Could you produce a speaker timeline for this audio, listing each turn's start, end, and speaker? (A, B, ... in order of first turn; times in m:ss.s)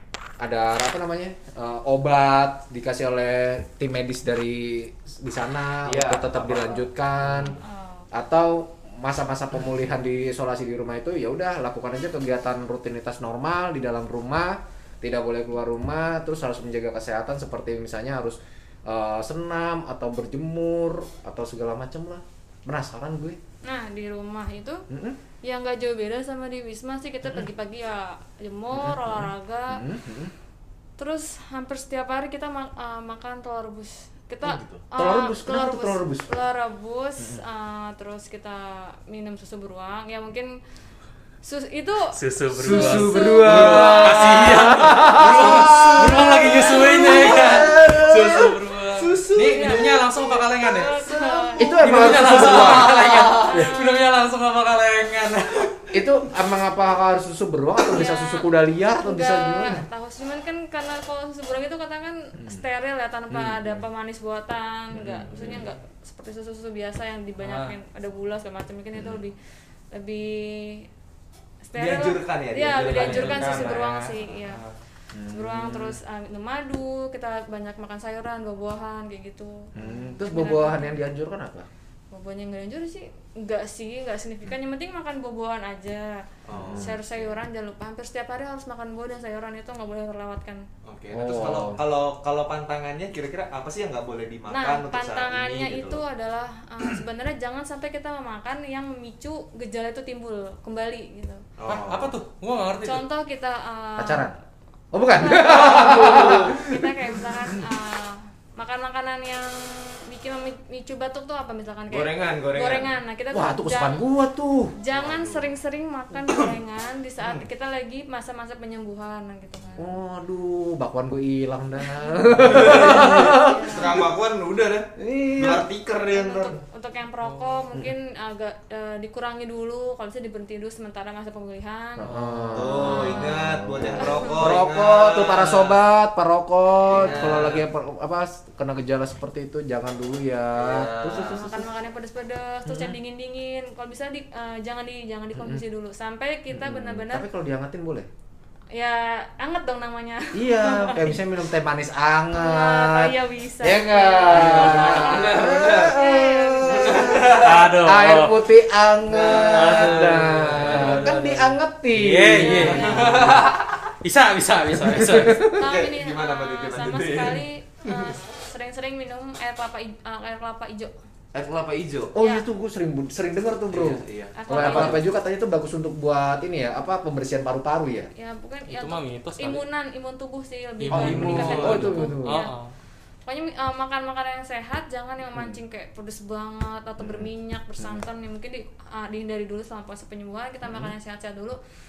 0:00.4-0:07.6 A
0:05.8-0:06.8 B
0:07.4-0:08.1 C
0:08.1-0:23.4 A
0:23.6-0:24.8 C
0:24.9-0:25.2 A
0:25.4-0:29.8 C
0:28.7-0:30.3 A
0:31.0-0:40.5 C
0:34.4-0:34.8 B
0:35.0-0:36.3 A
0:41.4-0:42.1 C
0:42.2-0:50.3 B
0:42.3-0:50.9 D
0:42.5-0:48.4 A
0:42.7-0:44.0 C
0:49.5-0:50.0 C
0:50.6-0:53.9 C
0:50.9-0:53.6 B
0:51.6-0:53.8 A
0:51.8-0:55.7 D
0:55.9-0:59.8 A
0:57.9-1:09.4 C
1:03.3-1:03.8 A
1:04.9-1:05.6 A
1:05.3-1:05.6 B
1:07.4-1:07.7 D
1:09.9-1:10.9 C
1:11.6-1:14.6 C
1:11.7-1:13.9 B
1:12.9-1:14.8 D
1:15.1-1:16.0 A
1:15.3-1:21.0 C
1:19.7-1:21.7 A
1:22.1-1:30.6 C
1:26.5-1:26.9 B
1:26.5-1:27.3 A
1:30.8-1:36.0 B
1:31.1-1:31.8 A
1:34.5-1:41.4 C
1:41.6-1:42.1 B
1:41.6-1:43.0 D
1:42.8-1:44.3 C
1:44.0-1:44.3 A
1:44.9-1:46.9 A
1:45.2-1:54.0 C
1:45.4-1:46.6 B
1:51.9-1:52.9 B
1:53.3-1:54.7 A
1:54.8-2:00.0 C
1:54.9-1:55.5 B
1:56.2-1:56.5 B
1:57.2-1:57.4 B
1:59.8-2:04.1 A
2:01.8-2:04.0 C
2:02.4-2:06.6 B
2:05.0-2:05.6 A
2:06.1-2:12.1 C
2:07.2-2:07.6 D
2:12.0-2:21.7 A
2:12.0-2:12.6 D
2:12.5-2:15.8 B
2:12.7-2:14.4 C
2:16.9-2:17.6 B
2:16.9-2:17.3 C
2:20.6-2:21.5 B
2:21.4-2:27.3 C
2:25.4-2:25.6 A
2:26.5-2:28.1 A
2:28.7-2:31.2 C
2:30.3-2:43.5 A
2:32.3-2:37.2 C
2:34.3-2:35.5 D
2:34.7-2:35.9 B
2:36.7-2:37.7 B
2:37.0-2:38.4 D
2:39.0-2:41.1 B
2:39.4-2:45.5 D
2:42.4-2:43.3 C
2:42.7-2:43.7 B
2:44.8-2:45.6 A
2:45.5-2:50.9 C
2:45.5-2:48.1 B
2:51.3-2:52.2 B
2:52.1-2:58.1 A
2:52.2-2:52.4 C
2:53.7-2:55.0 B
2:54.4-2:55.0 C
2:58.1-3:02.5 C
2:58.7-2:59.6 D
3:00.8-3:02.7 D
3:00.9-3:02.4 A
3:01.2-3:01.8 B
3:03.3-3:11.6 C
3:05.3-3:05.6 A
3:07.0-3:08.0 A
3:10.6-3:10.9 A